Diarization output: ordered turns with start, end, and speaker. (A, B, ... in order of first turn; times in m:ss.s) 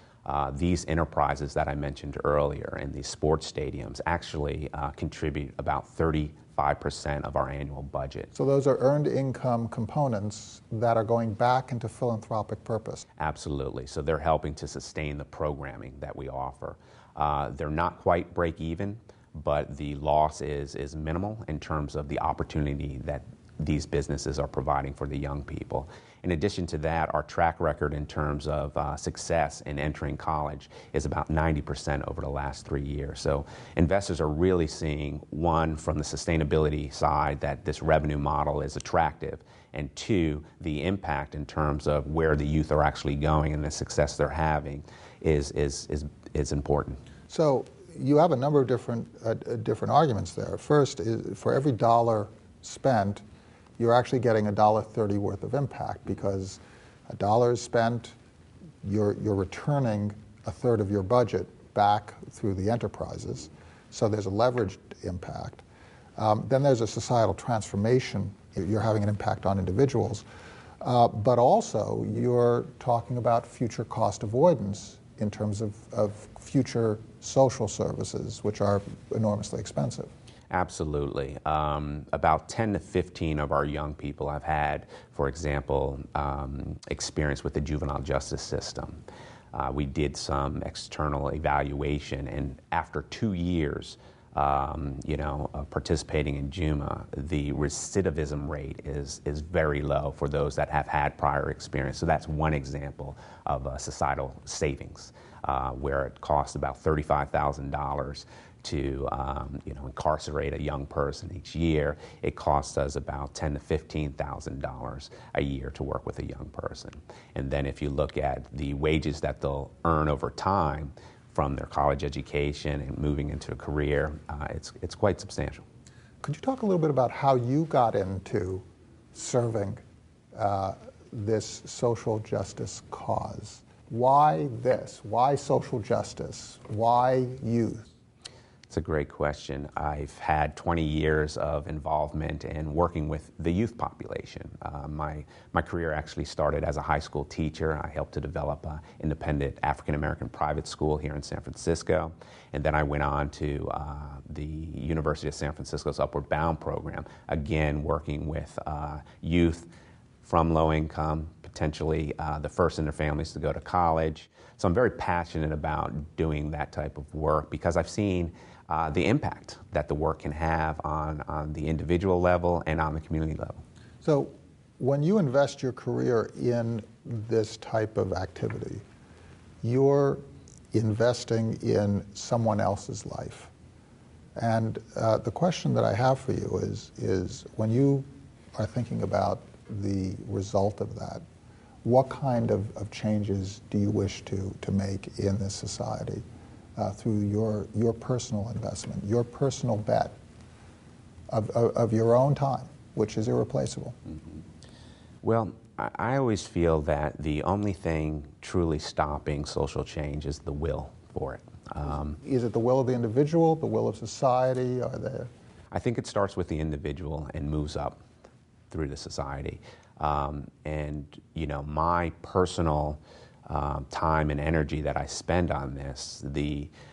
0:00.2-0:08.3 A
0:08.3-0:13.0 B
0:13.2-0:47.0 A
0:47.3-0:53.2 B
0:53.8-0:58.2 B
0:58.8-1:05.6 B
1:06.2-1:10.2 B
1:10.8-1:20.1 B
1:20.5-1:29.0 A
1:29.5-2:05.6 A
2:06.2-2:09.8 B
2:10.3-2:17.9 B
2:18.7-2:39.7 A
2:40.2-2:53.6 A
2:54.0-2:58.8 B
2:59.6-3:00.2 B
3:00.7-3:03.5 B
3:04.4-3:11.2 B
3:11.8-3:16.2 B
3:16.8-3:20.1 B
3:21.3-3:24.0 B
3:25.2-3:32.2 A
3:32.2-3:35.3 B
3:35.7-3:38.0 A
3:38.7-3:46.7 A